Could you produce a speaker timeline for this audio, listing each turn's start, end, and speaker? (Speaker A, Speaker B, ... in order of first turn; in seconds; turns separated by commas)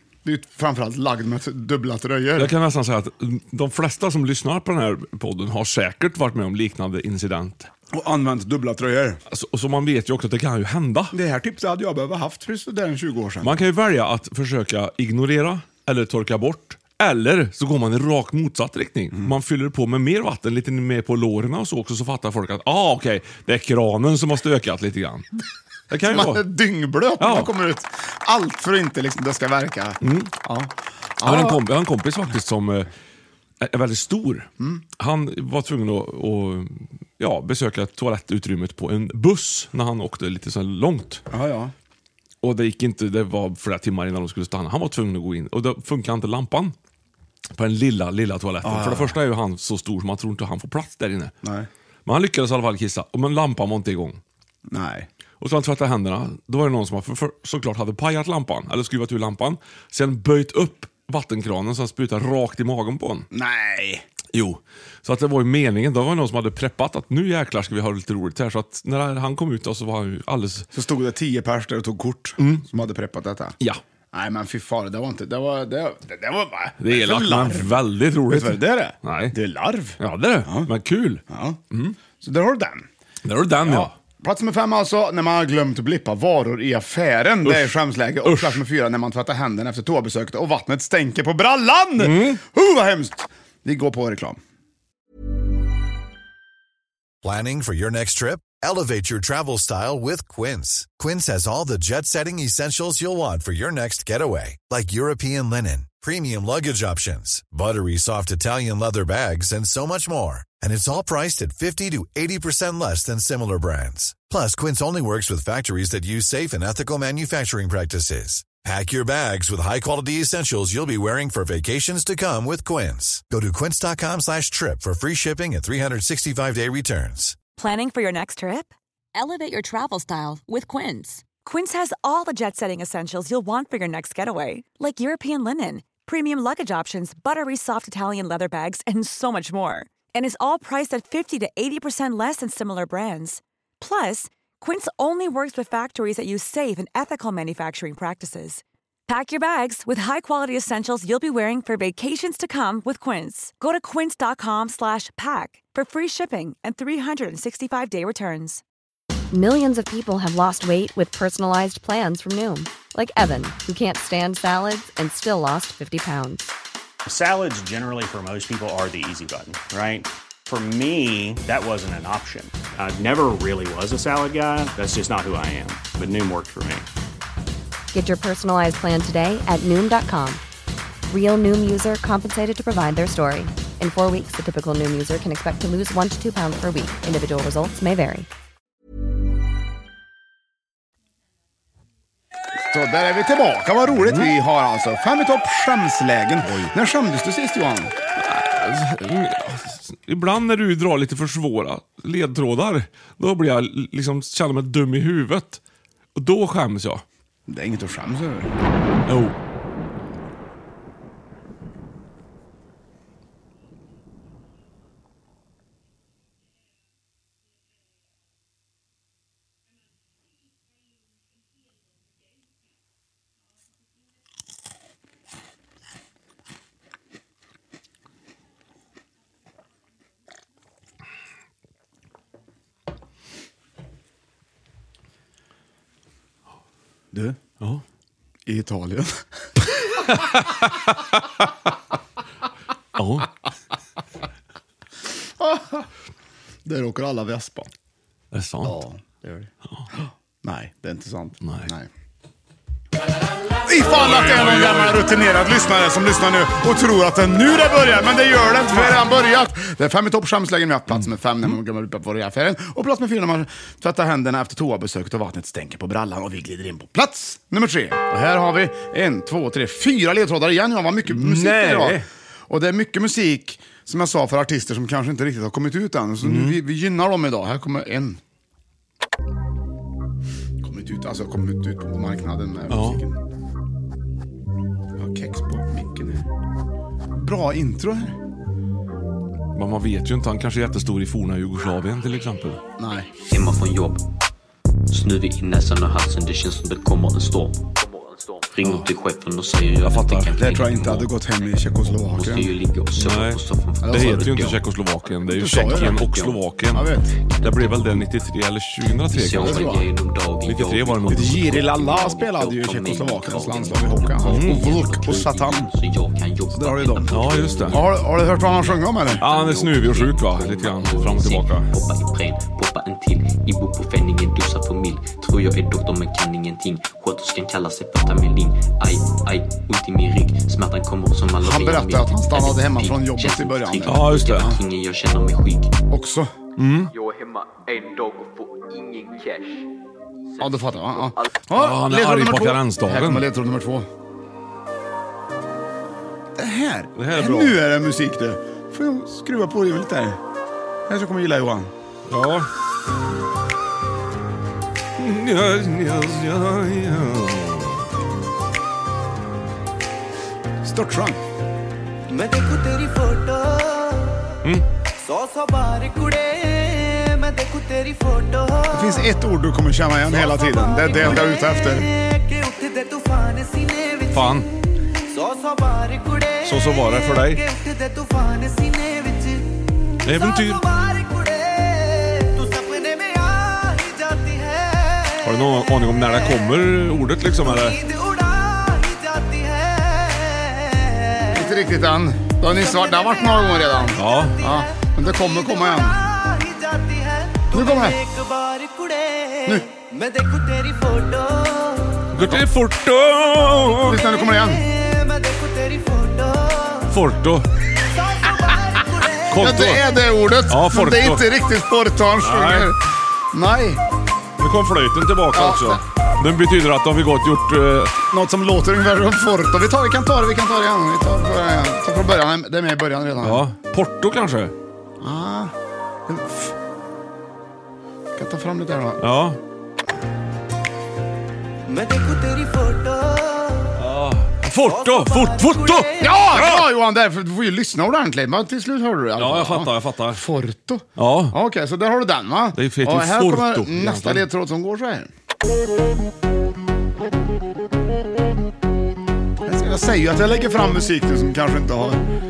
Speaker A: 0.2-2.5, Speaker B: 2.4-7.7, Speaker A: 7.9-9.2, Speaker B: 9.3-11.1, Speaker A: 11.1-13.6, Speaker B: 13.4-25.3, Speaker B: 25.9-26.4, Speaker A: 26.0-31.6, Speaker B: 27.2-27.5, Speaker B: 30.0-30.3, Speaker B: 31.2-32.9, Speaker B: 33.6-41.2, Speaker A: 41.3-41.7, Speaker B: 42.4-46.7, Speaker B: 47.5-51.3, Speaker A: 48.6-49.2, Speaker A: 51.4-51.7, Speaker B: 52.0-54.2, Speaker A: 54.7-55.1, Speaker B: 55.4-63.2, Speaker A: 63.3-64.0, Speaker B: 64.3-70.7, Speaker A: 70.7-73.6, Speaker B: 72.4-72.7, Speaker A: 74.1-80.7, Speaker B: 76.8-79.3, Speaker B: 80.0-82.0, Speaker A: 81.3-81.6, Speaker A: 82.2-82.9, Speaker B: 83.2-83.9, Speaker A: 83.6-94.4, Speaker B: 87.4-88.6, Speaker B: 92.0-92.4, Speaker C: 97.2-127.4, Speaker D: 127.6-128.7, Speaker E: 129.1-131.2, Speaker D: 131.4-158.6, Speaker E: 159.3-166.5, Speaker F: 167.1-176.9, Speaker E: 177.9-180.4, Speaker E: 181.1-188.3, Speaker A: 192.6-197.9, Speaker B: 194.0-194.3, Speaker B: 196.4-196.7, Speaker B: 198.2-205.6, Speaker B: 206.1-207.0, Speaker A: 207.5-208.5, Speaker B: 209.1-209.3, Speaker A: 237.1-237.4, Speaker A: 238.4-239.2, Speaker B: 240.1-241.1, Speaker B: 242.9-243.3, Speaker A: 245.4-245.9, Speaker A: 246.6-247.7, Speaker B: 248.3-248.8, Speaker A: 248.6-251.9, Speaker B: 251.4-251.7, Speaker A: 253.7-278.2, Speaker B: 253.8-255.0, Speaker B: 258.7-259.0, Speaker B: 271.1-272.1, Speaker B: 276.2-276.6, Speaker A: 280.6-283.2, Speaker B: 282.7-283.0, Speaker A: 285.0-286.2, Speaker A: 287.1-288.2, Speaker B: 289.5-292.6, Speaker A: 292.8-293.1, Speaker G: 293.3-294.0, Speaker G: 294.9-306.5, Speaker B: 298.6-298.9, Speaker B: 299.8-300.4, Speaker A: 300.3-302.5, Speaker B: 302.9-311.7, Speaker A: 303.8-304.3, Speaker A: 305.3-306.1, Speaker A: 306.7-307.1, Speaker G: 307.1-308.0, Speaker G: 309.1-335.7, Speaker A: 309.3-309.8, Speaker A: 311.1-315.7, Speaker B: 314.2-314.9, Speaker A: 316.5-317.1, Speaker B: 317.1-317.8, Speaker A: 317.6-319.2, Speaker B: 319.2-321.7, Speaker A: 331.4-334.6, Speaker B: 333.8-334.6, Speaker A: 335.9-336.3, Speaker B: 336.6-336.9, Speaker G: 336.9-339.6, Speaker G: 340.3-341.3, Speaker A: 340.4-343.9, Speaker B: 341.5-343.2, Speaker A: 346.4-350.2, Speaker B: 346.9-347.6, Speaker A: 350.9-351.7, Speaker B: 352.1-352.5, Speaker B: 355.0-357.8, Speaker A: 360.6-361.2, Speaker H: 362.1-364.2, Speaker H: 365.0-369.1, Speaker A: 368.7-371.9, Speaker H: 370.1-374.4, Speaker B: 370.9-371.3, Speaker B: 374.1-374.5, Speaker H: 375.1-379.5, Speaker B: 376.4-377.4, Speaker B: 380.0-380.6, Speaker H: 380.1-386.5, Speaker B: 385.2-387.8, Speaker H: 387.3-391.7, Speaker A: 391.3-396.0, Speaker H: 392.4-402.1, Speaker B: 393.9-394.4, Speaker A: 397.5-398.0, Speaker B: 402.1-404.0, Speaker A: 402.2-402.4, Speaker H: 403.6-407.0, Speaker A: 403.8-404.6, Speaker B: 406.9-407.5, Speaker H: 407.8-409.6, Speaker B: 409.3-409.9, Speaker A: 409.4-413.8, Speaker B: 410.5-411.2, Speaker B: 412.2-412.7, Speaker B: 414.4-418.0, Speaker A: 415.3-415.8, Speaker A: 418.1-423.4, Speaker B: 423.2-424.5, Speaker A: 425.0-425.5, Speaker A: 426.1-426.5, Speaker A: 428.1-429.0, Speaker B: 429.0-429.4, Speaker H: 431.6-433.7, Speaker B: 433.8-436.7, Speaker H: 434.6-436.2, Speaker A: 436.0-445.1, Speaker B: 439.1-440.2, Speaker B: 441.0-441.4, Speaker B: 442.6-444.2, Speaker A: 449.4-452.1